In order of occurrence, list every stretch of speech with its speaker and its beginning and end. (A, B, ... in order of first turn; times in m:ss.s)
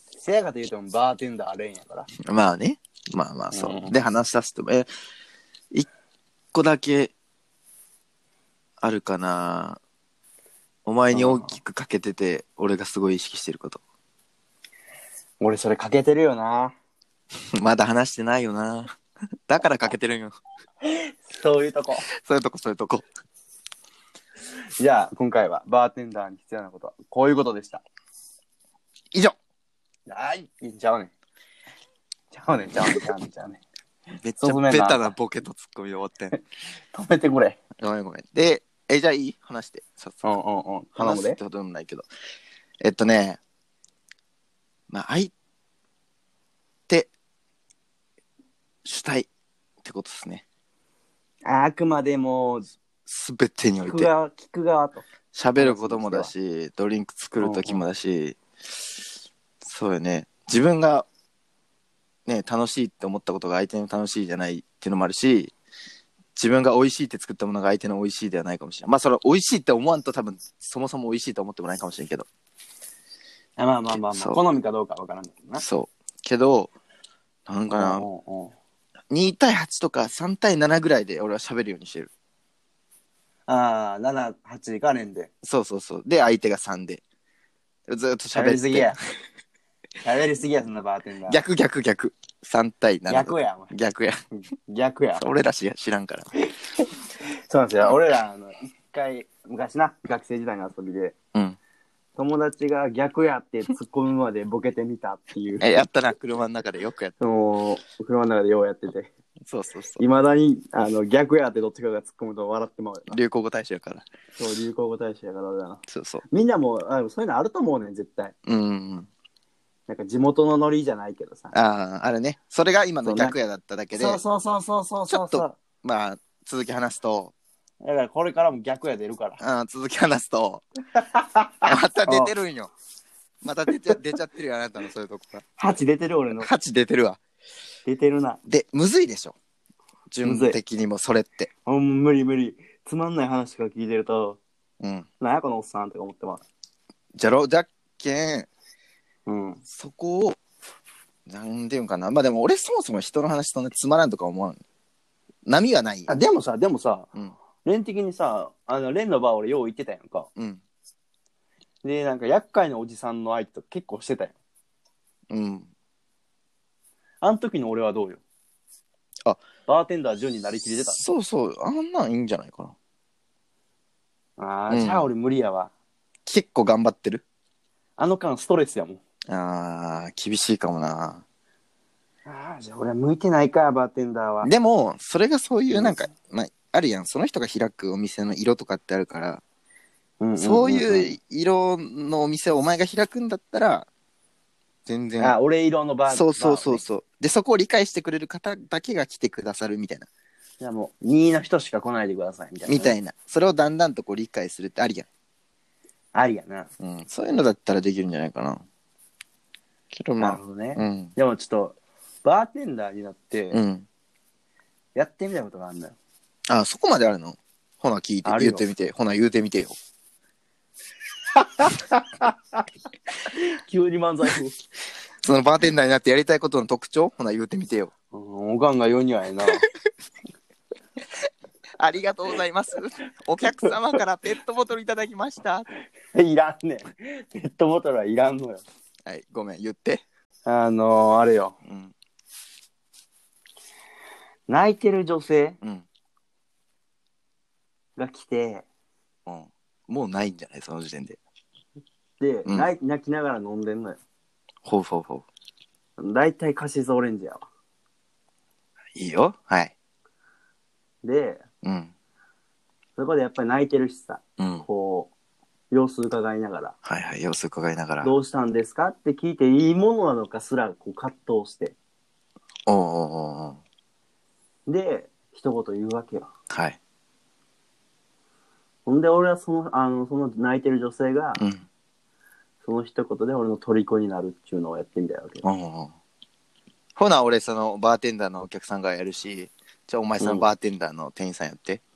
0:00.2-0:02.1 A
0:02.3-0:04.9 B
0:03.5-0:04.0 A
0:06.5-0:07.1 B
0:08.8-0:09.8 B
0:10.9-0:13.8 B
0:11.1-0:11.6 A
0:15.4-0:16.8 A
0:17.6-0:19.0 B
0:19.5-0:20.4 B
0:20.8-0:22.1 A
0:22.2-0:23.0 B
0:24.8-0:27.8 A
0:30.1-0:31.1 A
0:32.3-0:33.6 A
0:34.2-0:36.4 B
0:34.4-0:35.1 A
0:36.9-0:37.6 A
0:37.8-0:40.3 B
0:40.2-0:41.4 A
0:41.0-0:42.1 B
0:42.8-0:43.4 B
0:44.9-0:45.3 B
0:48.8-0:49.3 B
0:49.8-0:50.4 B
0:51.5-0:52.7 A
0:53.1-0:54.1 B
0:53.8-0:55.1 A
0:55.3-0:58.4 B
0:55.6-0:56.3 A
0:57.4-0:57.8 A
0:59.6-1:01.1 B
1:02.3-1:05.5 B
1:06.4-1:12.3 B
1:13.6-1:15.6 A
1:13.9-1:14.4 B
1:15.6-1:16.7 B
1:17.5-1:18.1 B
1:17.7-1:18.6 A
1:19.1-1:22.1 B
1:23.5-1:25.3 A
1:25.4-1:27.0 B
1:27.9-1:29.0 B
1:28.3-1:29.0 A
1:30.0-1:31.4 A
1:31.3-1:34.2 B
1:33.1-1:33.7 A
1:34.3-1:35.2 A
1:35.2-1:36.3 B
1:37.5-1:41.2 A
1:42.2-1:45.8 A
1:45.6-1:47.2 B
1:47.2-1:49.1 A
1:49.5-1:50.0 B
1:50.0-1:53.2 A
1:53.1-1:54.0 B
1:54.4-1:58.3 A
1:55.9-1:56.2 B
1:58.5-1:59.1 B
1:59.9-2:01.5 A
2:01.5-2:04.2 B
2:03.0-2:03.4 A
2:03.9-2:05.6 A
2:05.1-2:07.3 B
2:07.8-2:09.4 A
2:09.4-2:10.6 B
2:11.0-2:12.3 A
2:11.6-2:12.7 B
2:13.4-2:15.4 B
2:15.6-2:16.5 A
2:16.4-2:17.2 B
2:17.9-2:18.4 A
2:18.5-2:19.4 B
2:20.1-2:21.5 B
2:20.2-2:20.6 A
2:21.6-2:24.4 A
2:24.8-2:25.1 B
2:25.2-2:26.4 A
2:27.2-2:28.5 B
2:29.3-2:29.6 A
2:29.7-2:30.4 B
2:31.3-2:34.6 B
2:35.5-2:36.2 B
2:36.1-2:37.1 A
2:37.6-2:40.3 A
2:40.4-2:40.6 B
2:41.8-2:44.4 A
2:45.3-2:45.7 B
2:47.2-2:48.2 A
2:49.7-2:51.0 A
2:50.9-2:52.8 B
2:54.4-2:55.7 A
2:54.7-2:55.1 B
2:56.3-2:57.2 B
2:58.0-2:59.0 A
2:59.3-3:01.2 B
3:02.3-3:04.5 A
3:04.4-3:09.4 B
3:05.7-3:06.1 A
3:10.2-3:11.1 A
3:10.4-3:13.9 B
3:14.9-3:15.4 B
3:15.2-3:16.8 A
3:16.1-3:20.1 B
3:20.6-3:23.0 A
3:22.7-3:25.1 B
3:26.1-3:26.7 A
3:26.8-3:28.6 B
3:29.9-3:31.1 B
3:30.2-3:33.6 A
3:33.5-3:33.9 B
3:35.0-3:36.0 A
3:36.5-3:39.8 B
3:38.2-3:38.7 A
3:41.4-3:42.3 A
3:43.3-3:44.6 A
3:45.2-3:47.9 B
3:48.1-3:49.7 A
3:51.8-3:55.7 B
3:56.1-3:58.6 A
3:59.1-4:00.0 B
4:00.5-4:01.6 A
4:01.7-4:01.9 B
4:04.5-4:05.6 A
4:08.0-4:08.7 A
4:09.3-4:11.2 B
4:12.2-4:14.0 A
4:14.6-4:15.3 B
4:16.0-4:17.4 A
4:19.0-4:19.7 B
4:21.0-4:21.4 A
4:21.6-4:21.9 B
4:23.0-4:25.1 A
4:24.4-4:24.7 B
4:25.7-4:26.8 A
4:26.8-4:28.1 B
4:28.0-4:31.8 A
4:32.7-4:33.6 B
4:34.7-4:36.3 A
4:36.5-4:36.8 B
4:38.9-4:41.4 A
4:41.4-4:41.6 B
4:42.6-4:45.4 A
4:45.4-4:45.9 B
4:47.0-4:51.8 B
4:50.2-4:50.5 A